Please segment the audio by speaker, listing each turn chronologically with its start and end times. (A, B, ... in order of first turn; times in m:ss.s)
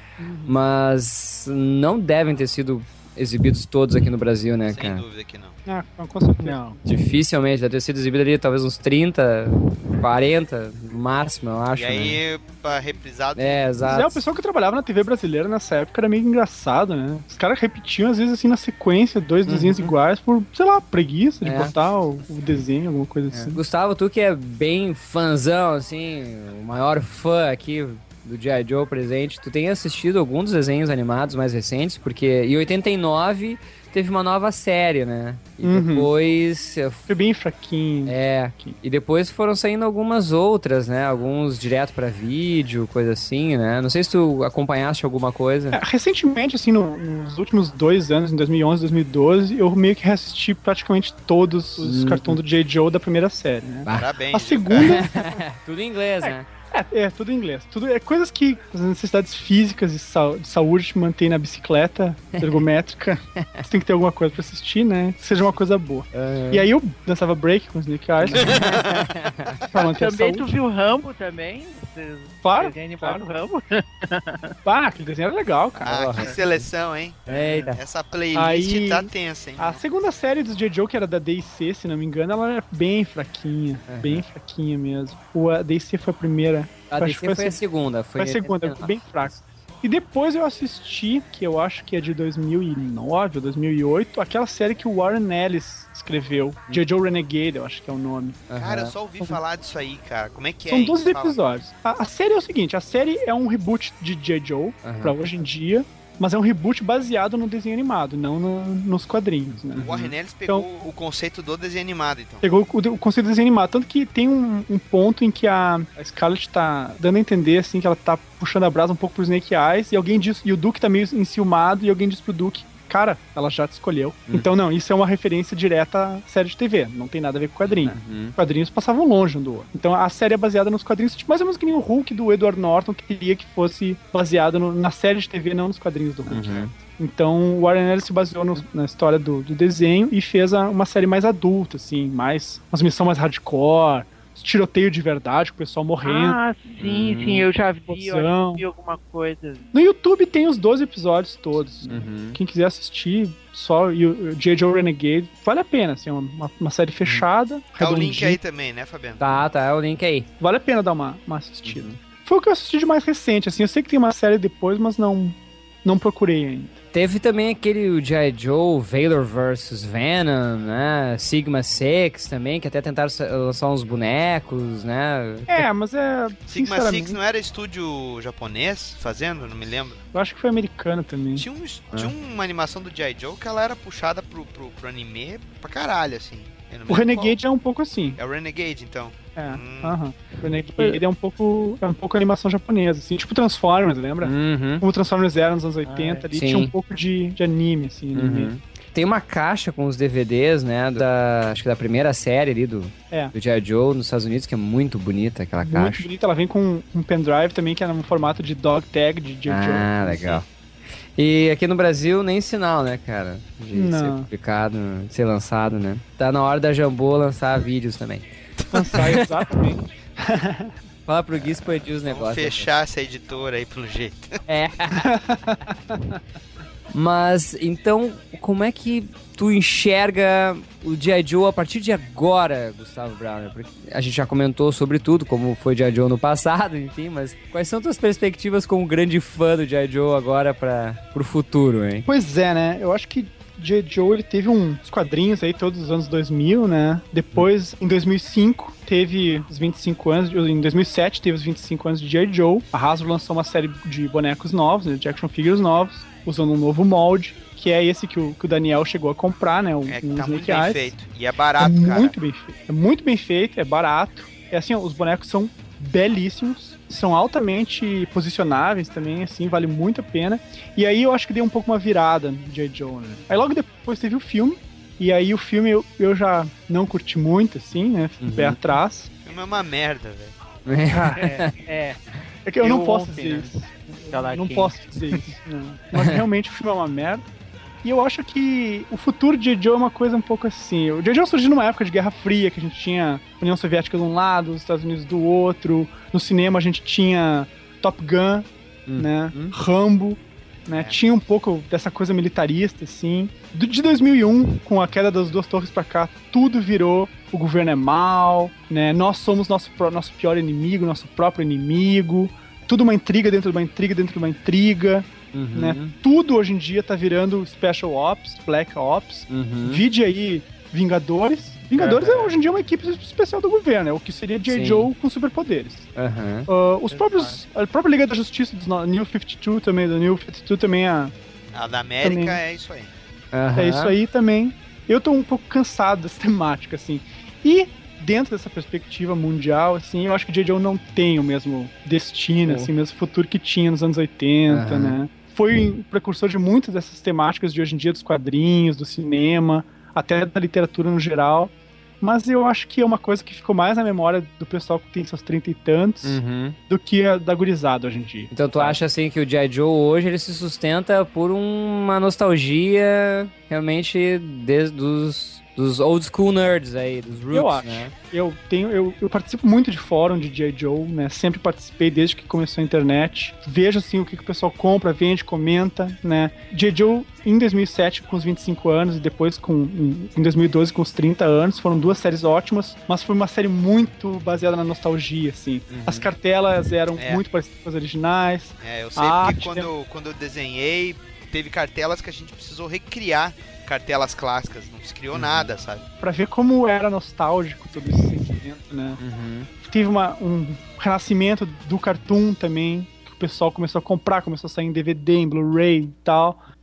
0:00.2-0:00.5 A
0:00.5-0:05.0 B
0:04.6-0:05.6 C
0:05.6-0:06.8 A
0:06.8-0:12.2 B
0:11.7-0:13.7 C
0:13.4-0:14.2 B
0:13.8-0:23.6 A
0:19.5-0:19.9 B
0:21.4-0:21.7 B
0:23.3-0:37.1 B
0:35.6-0:36.1 A
0:37.1-0:38.8 A
0:38.0-0:45.8 B
0:45.7-0:55.3 A
0:51.8-0:52.4 B
0:53.8-0:54.1 B
0:53.9-0:55.2 C
0:54.8-0:56.4 B
0:56.2-1:08.7 A
1:02.3-1:02.6 B
1:03.4-1:03.6 B
1:06.1-1:06.7 B
1:08.2-1:09.6 B
1:08.4-1:09.0 C
1:09.7-1:10.6 A
1:09.7-1:14.6 D
1:12.4-1:13.2 A
1:14.6-1:16.2 A
1:15.8-1:19.8 C
1:15.8-1:16.6 B
1:17.3-1:17.7 D
1:17.3-1:17.8 B
1:18.3-1:27.6 A
1:23.9-1:24.2 B
1:26.9-1:29.3 B
1:28.2-1:38.4 A
1:38.5-1:38.9 B
1:38.6-1:41.4 C
1:40.7-1:49.9 A
1:44.8-1:45.2 B
1:49.5-1:50.1 B
1:49.8-1:52.4 C
1:52.4-2:26.4 A
2:07.6-2:08.3 B
2:16.3-2:16.7 B
2:26.0-2:29.7 D
2:26.8-2:27.5 B
2:27.9-2:28.6 A
2:29.7-2:38.4 A
2:31.8-2:32.4 B
2:37.8-2:39.4 C
2:39.2-2:40.3 B
2:40.4-2:46.8 A
2:41.6-2:42.0 B
2:46.9-2:55.7 B
2:55.5-2:57.2 A
2:56.5-3:00.0 C
3:00.1-3:01.4 A
3:01.4-3:07.4 C
3:06.9-3:08.2 A
3:08.2-3:10.0 C
3:09.4-3:18.5 A
3:14.2-3:14.8 B
3:15.8-3:16.3 D
3:16.3-3:16.7 B
3:18.1-3:26.1 B
3:25.6-3:30.2 A
3:29.4-3:30.4 B
3:31.2-3:38.3 B
3:33.7-3:34.3 A
3:38.7-3:40.7 A
3:39.0-3:39.5 B
3:41.1-3:42.7 B
3:42.0-3:44.4 C
3:44.5-3:45.0 B
3:44.9-3:46.2 A
3:46.9-4:02.1 B
4:02.0-4:20.9 A
4:19.8-4:22.1 C
4:21.6-4:39.1 A
4:38.2-4:38.6 B
4:39.2-4:40.3 C
4:40.6-4:41.5 B
4:40.9-4:41.3 A
4:41.2-4:42.0 D
4:42.4-4:47.2 A
4:42.6-4:44.8 D
4:47.8-5:25.9 A
4:58.9-4:59.5 B
5:00.7-5:01.0 C
5:15.3-5:15.9 B
5:19.3-5:19.8 B
5:21.7-5:22.3 B
5:24.5-5:24.9 B
5:26.0-5:26.5 B
5:26.5-5:31.1 A
5:26.9-5:27.4 D
5:31.5-5:32.9 C
5:32.0-5:32.4 A
5:33.3-5:33.9 B
5:33.5-5:58.8 A
5:44.5-5:45.0 B
5:56.0-5:56.6 B
5:58.3-6:07.9 B
6:07.3-6:29.7 A
6:25.7-6:26.1 B
6:27.0-6:27.2 C
6:28.6-6:35.8 C
6:35.1-6:35.5 B
6:36.0-6:39.0 A
6:39.0-6:39.5 B
6:39.6-6:46.4 A